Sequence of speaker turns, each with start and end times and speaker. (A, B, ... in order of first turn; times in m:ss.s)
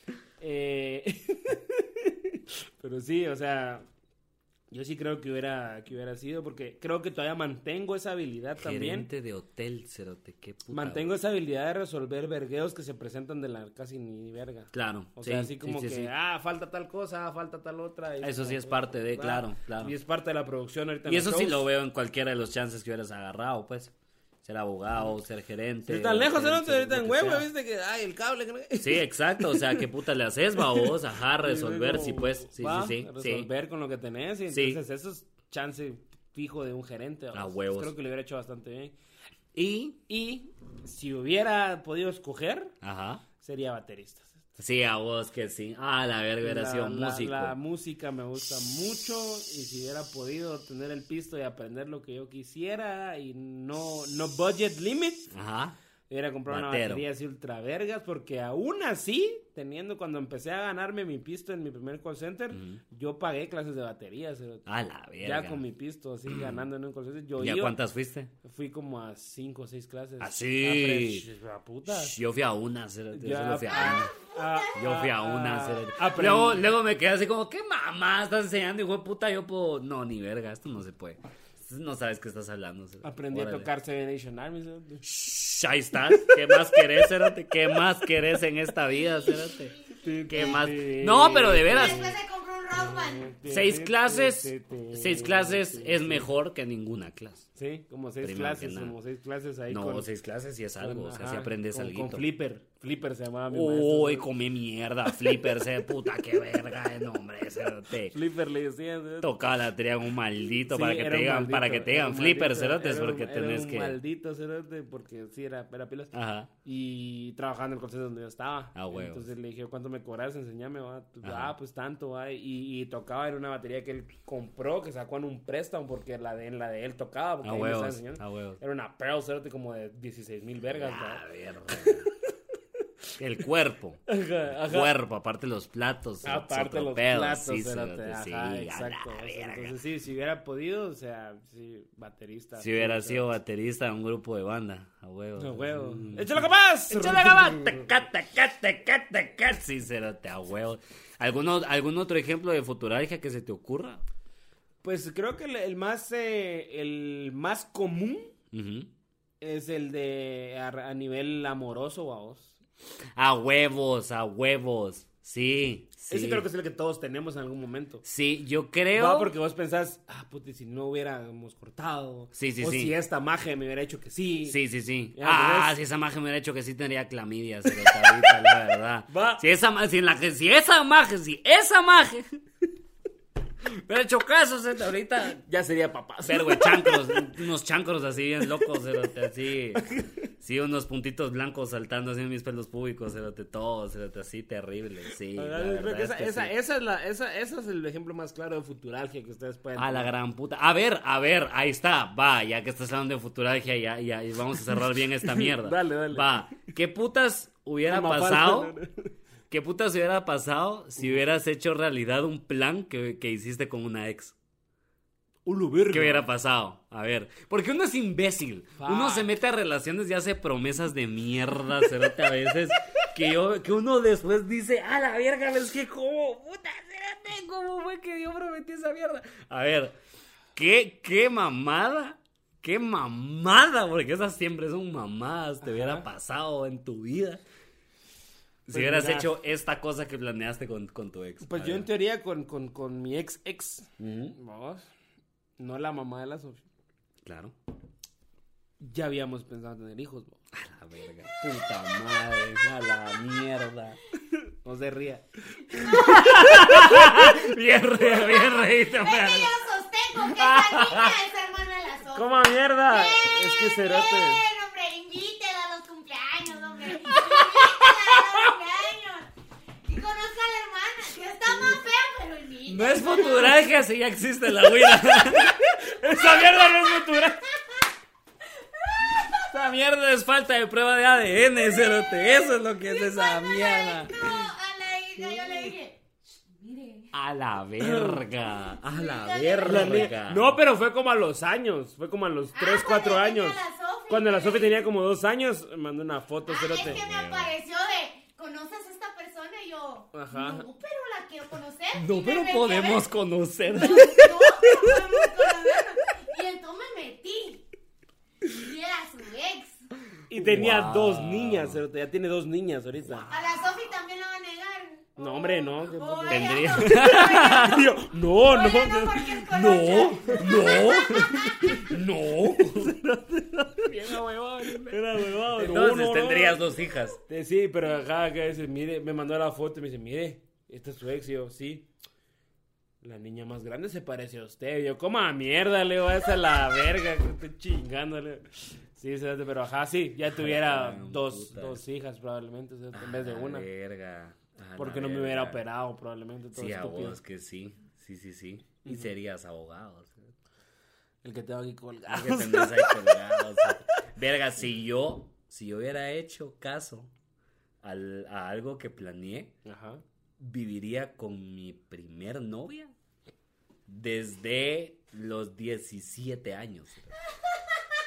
0:00.4-0:03.8 A
0:04.7-0:09.1 A
0:08.6-0:11.1 B
0:10.7-0:21.6 A
0:14.7-0:16.1 B
0:18.2-0:19.9 B
0:21.0-0:23.9 B
0:24.4-0:27.5 B
0:25.8-0:29.8 A
0:28.8-0:33.5 B
0:30.7-0:38.9 A
0:34.5-0:34.8 B
0:37.3-0:37.9 B
0:39.5-0:40.0 B
0:40.1-0:42.7 A
0:42.8-0:43.2 B
0:43.4-0:44.5 A
0:44.6-0:47.6 B
0:46.4-0:55.3 A
0:55.3-0:55.8 B
0:56.1-1:04.6 A
0:56.5-0:57.0 B
1:02.5-1:02.8 B
1:04.7-1:05.6 B
1:05.2-1:07.8 A
1:06.2-1:06.7 B
1:07.4-1:08.3 B
1:08.4-1:12.1 A
1:10.2-1:11.2 B
1:11.8-1:14.1 B
1:13.1-1:16.6 A
1:13.9-1:14.7 C
1:14.7-1:23.7 B
1:23.0-1:25.1 A
1:25.0-1:29.7 B
1:30.0-1:32.2 A
1:30.3-1:32.1 B
1:31.6-1:33.3 C
1:32.7-1:36.3 A
1:33.5-1:37.5 B
1:37.6-1:40.1 A
1:38.2-1:38.9 B
1:39.7-1:42.2 B
1:40.8-1:44.3 A
1:43.5-1:48.2 B
1:48.1-1:49.4 A
1:49.2-1:54.0 B
1:50.7-1:56.1 A
1:56.1-1:56.5 B
1:56.6-2:12.0 A
1:58.7-1:59.3 B
2:01.2-2:01.5 B
2:07.4-2:08.6 B
2:10.7-2:12.1 B
2:13.2-2:19.7 B
2:14.1-2:14.9 A
2:16.2-2:23.3 A
2:22.6-2:34.0 B
2:25.4-2:27.9 A
2:34.8-2:38.3 A
2:38.5-2:38.9 B
2:39.4-2:42.6 A
2:43.2-2:46.4 B
2:46.1-2:48.0 A
2:48.0-2:49.3 B
2:48.9-2:54.6 A
2:52.3-2:52.9 B
2:54.4-3:02.2 B
2:55.1-2:55.8 A
2:59.1-2:59.4 A
3:03.6-3:05.4 B
3:05.4-3:07.4 A
3:06.2-3:16.5 B
3:09.8-3:10.1 A
3:15.3-3:20.1 A
3:19.8-3:28.7 B
3:25.2-3:26.4 A
3:27.8-3:29.1 A
3:29.5-3:34.4 B
3:35.4-3:36.3 A
3:35.9-3:50.0 B
3:38.8-3:39.3 A
3:50.5-3:57.4 B
3:55.6-3:56.0 A
3:58.7-4:01.9 B
3:58.7-3:59.3 A
4:01.4-4:04.9 A
4:04.0-4:04.3 B
4:05.6-4:06.6 A
4:07.2-4:07.6 B
4:08.8-4:10.4 A
4:10.5-4:14.0 B
4:14.4-4:17.3 A
4:15.8-4:16.2 C
4:15.8-4:19.5 B
4:18.4-4:29.3 C
4:20.3-4:21.1 B
4:22.1-4:24.4 A
4:27.6-4:28.4 B
4:29.8-4:33.6 C
4:32.6-4:36.5 B
4:35.8-4:37.4 A
4:36.3-4:37.8 C
4:38.6-4:39.5 C
4:39.3-4:44.5 B
4:41.8-4:46.0 C
4:46.6-4:47.1 C
4:47.1-4:50.6 B
4:47.8-4:48.2 A
4:48.8-4:50.1 C
4:49.6-4:57.0 A
4:52.5-4:54.9 C
4:56.5-5:03.0 C
4:56.8-4:57.6 B
5:00.1-5:00.6 A
5:01.9-5:05.5 B
5:03.7-5:07.6 C
5:08.4-5:09.8 C
5:10.3-5:13.3 A
5:10.3-5:11.8 B
5:13.3-5:17.8 C
5:15.2-5:19.4 A
5:16.3-5:17.9 B
5:18.4-5:21.8 C
5:19.5-5:27.2 B
5:20.1-5:20.4 A
5:21.6-5:22.0 A
5:22.5-5:26.6 A
5:27.3-5:31.9 A
5:33.0-5:43.7 A
5:40.3-5:41.8 B
5:42.9-5:45.6 B
5:44.8-5:47.2 A
5:46.5-5:50.3 B
5:48.8-5:49.1 A
5:51.2-5:53.8 A
5:52.1-5:57.1 B
5:57.8-5:59.5 B
5:59.6-6:00.0 A
6:00.4-6:02.9 B
6:03.9-6:07.1 B